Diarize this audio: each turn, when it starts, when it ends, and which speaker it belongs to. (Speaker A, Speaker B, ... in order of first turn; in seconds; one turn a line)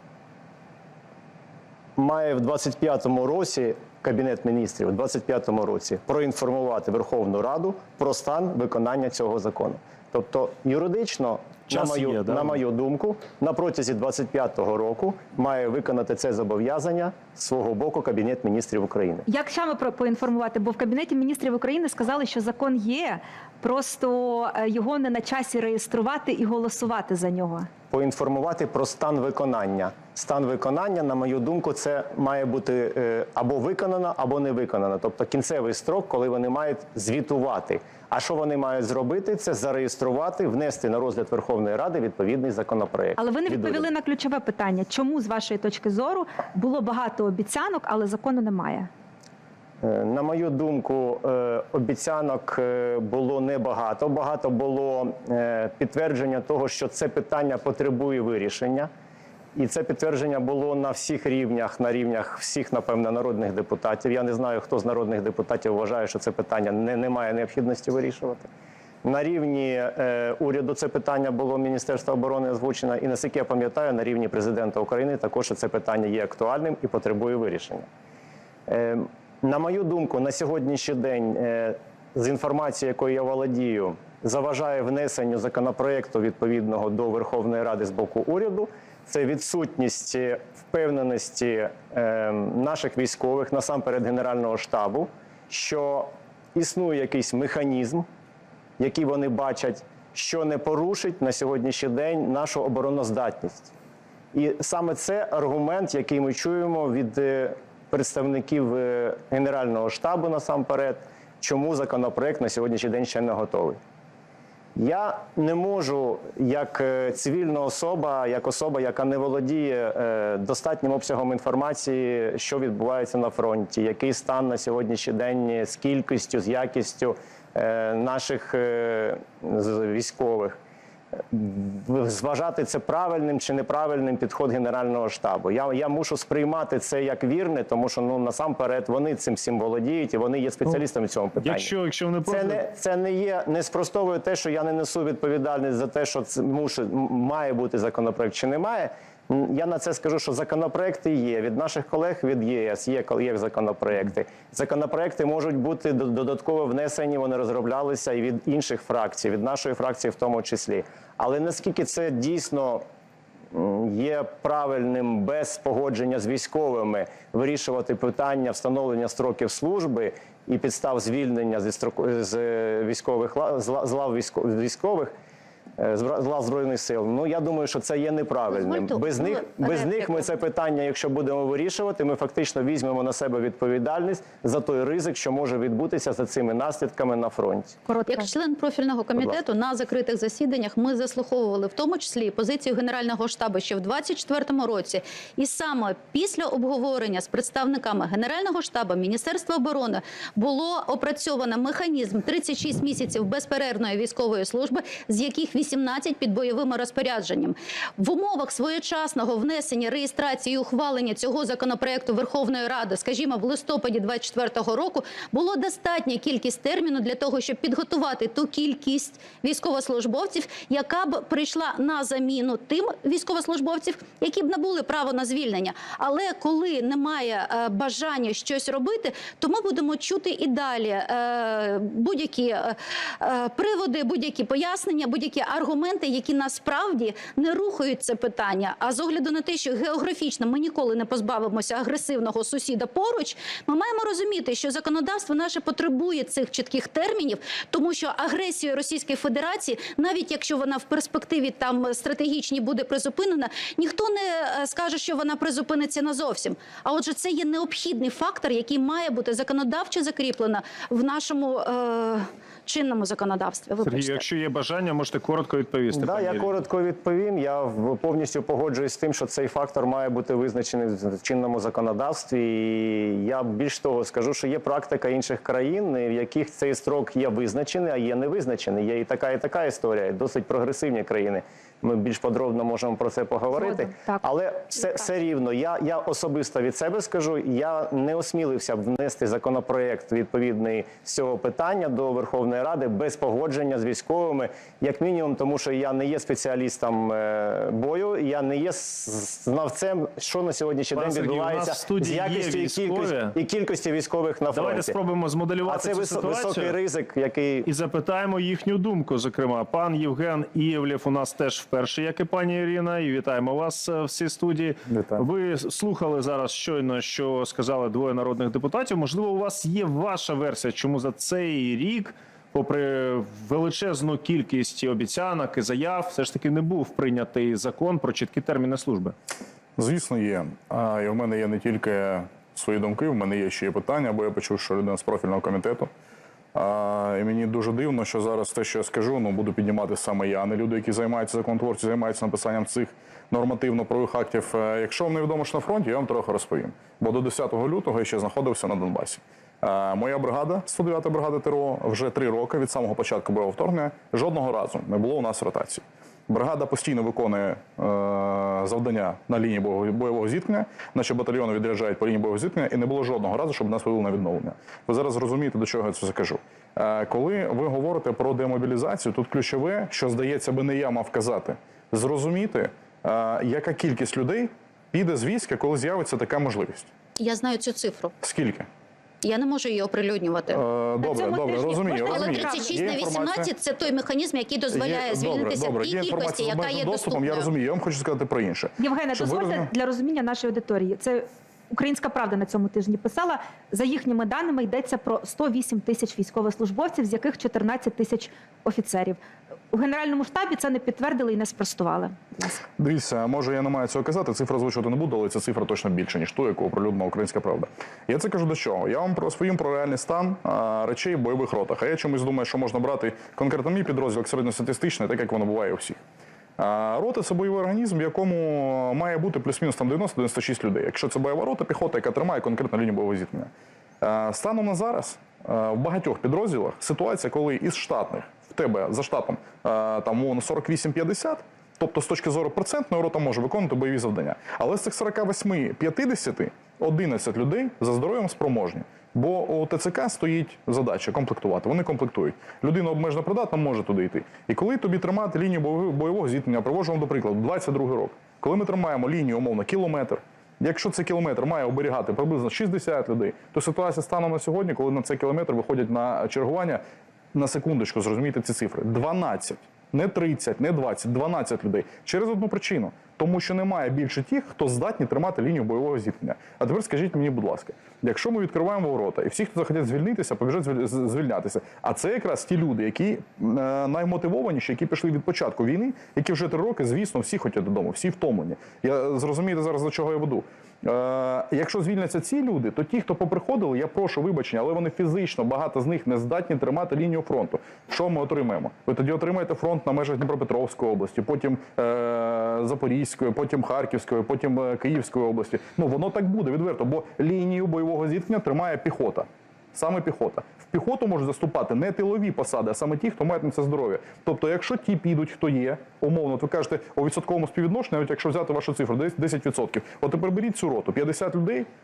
Speaker A: 2.0-19.2
Speaker B: 11.7-12.6
Speaker C: 19.3-27.7
Speaker A: 27.9-43.9
Speaker C: 43.2-48.9
Speaker A: 49.8-58.9
Speaker A: 59.5-68.5
Speaker A: 69.0-77.9
Speaker A: 78.7-98.0
Speaker A: 98.8-103.7
Speaker A: 104.3-113.8
Speaker A: 114.8-130.6
Speaker A: 131.3-141.7
Speaker B: 141.4-142.6
Speaker A: 142.3-162.8
Speaker A: 163.5-175.1
Speaker A: 175.8-187.8
Speaker D: 178.5-180.3
Speaker C: 187.9-188.3
Speaker D: 188.1-264.2
Speaker B: 263.8-266.6
Speaker A: 265.9-305.0
Speaker C: 283.5-284.2
Speaker B: 300.9-303.4
Speaker B: 304.5-306.8
Speaker A: 305.6-307.7
Speaker B: 307.6-329.1
Speaker E: 314.9-315.2
Speaker E: 329.8-335.9
Speaker E: 336.5-376.9
Speaker D: 377.2-378.1
Speaker E: 378.2-378.7
Speaker D: 379.2-380.6
Speaker E: 380.5-383.5
Speaker C: 381.0-382.9
Speaker D: 382.0-387.5
Speaker E: 384.7-389.7
Speaker C: 388.8-399.2
Speaker C: 399.7-402.6
Speaker E: 402.8-416.0
Speaker E: 416.6-423.5
Speaker E: 424.0-456.8
Speaker E: 457.3-511.7